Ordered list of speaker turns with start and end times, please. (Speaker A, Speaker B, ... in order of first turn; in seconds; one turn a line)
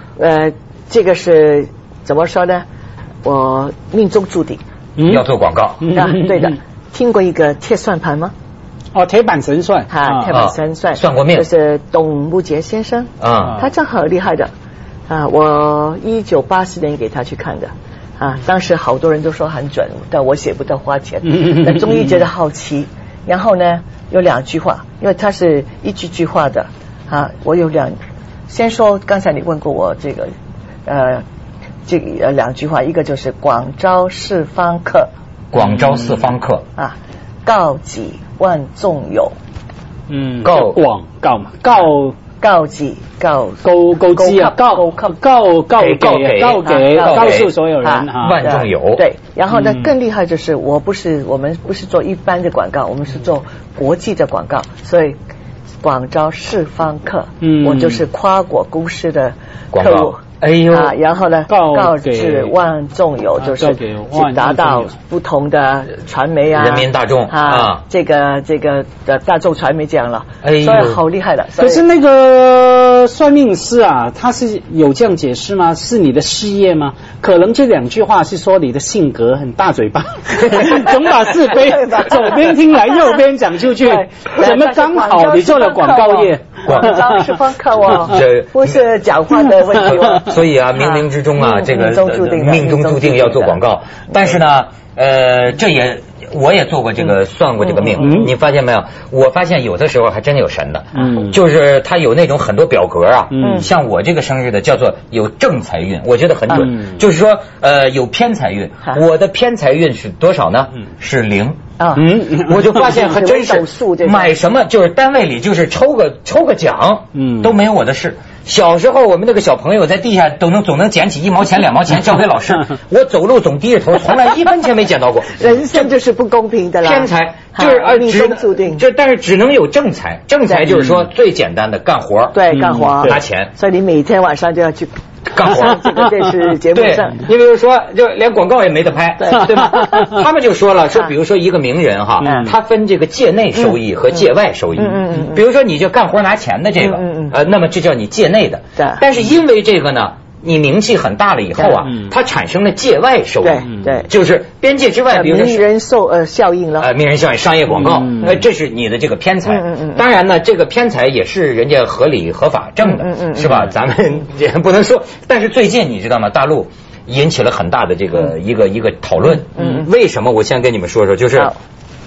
Speaker A: 0.2-2.6
Speaker A: 3.2-4.6
Speaker B: 5.0-5.2
Speaker C: 5.0-6.0
Speaker B: 5.8-6.5
Speaker A: 5.9-8.3
Speaker B: 8.9-10.3
Speaker A: 9.9-14.5
Speaker C: 10.3-11.4
Speaker C: 13.2-13.6
Speaker A: 15.1-28.0
Speaker A: 28.5-30.3
Speaker A: 30.9-31.2
Speaker A: 31.9-35.1
Speaker C: 35.5-36.6
Speaker A: 36.8-39.4
Speaker B: 40.1-42.1
Speaker C: 40.4-40.8
Speaker A: 42.4-45.1
Speaker B: 43.6-48.5
Speaker C: 45.8-47.5
Speaker A: 46.6-55.1
Speaker C: 48.1-49.0
Speaker B: 49.5-49.9
Speaker A: 55.8-71.8
Speaker B: 57.4-58.0
Speaker C: 59.7-60.9
Speaker B: 61.5-62.5
Speaker B: 63.4-64.9
Speaker C: 66.5-67.8
Speaker C: 70.4-71.0
Speaker B: 71.6-87.2
Speaker A: 81.5-82.5
Speaker A: 83.8-93.6
Speaker C: 86.7-87.0
Speaker C: 88.0-88.8
Speaker C: 89.8-111.6
Speaker B: 98.0-98.3
Speaker B: 101.0-101.3
Speaker B: 103.3-103.7
Speaker A: 103.4-103.7
Speaker A: 111.8-114.3
Speaker B: 112.0-112.7
Speaker C: 112.1-125.9
Speaker B: 117.2-117.5
Speaker A: 125.4-128.8
Speaker C: 126.8-132.4
Speaker A: 132.3-137.2
Speaker B: 132.5-133.1
Speaker C: 133.0-133.5
Speaker C: 135.3-136.0
Speaker C: 136.7-155.6
Speaker A: 139.2-140.1
Speaker A: 142.2-142.5
Speaker A: 144.8-145.4
Speaker A: 146.8-147.3
Speaker A: 148.8-149.0
Speaker A: 153.4-154.1
Speaker A: 155.1-156.9
Speaker C: 156.8-171.5
Speaker B: 157.8-158.3
Speaker A: 159.5-160.0
Speaker A: 162.9-163.6
Speaker A: 169.6-169.9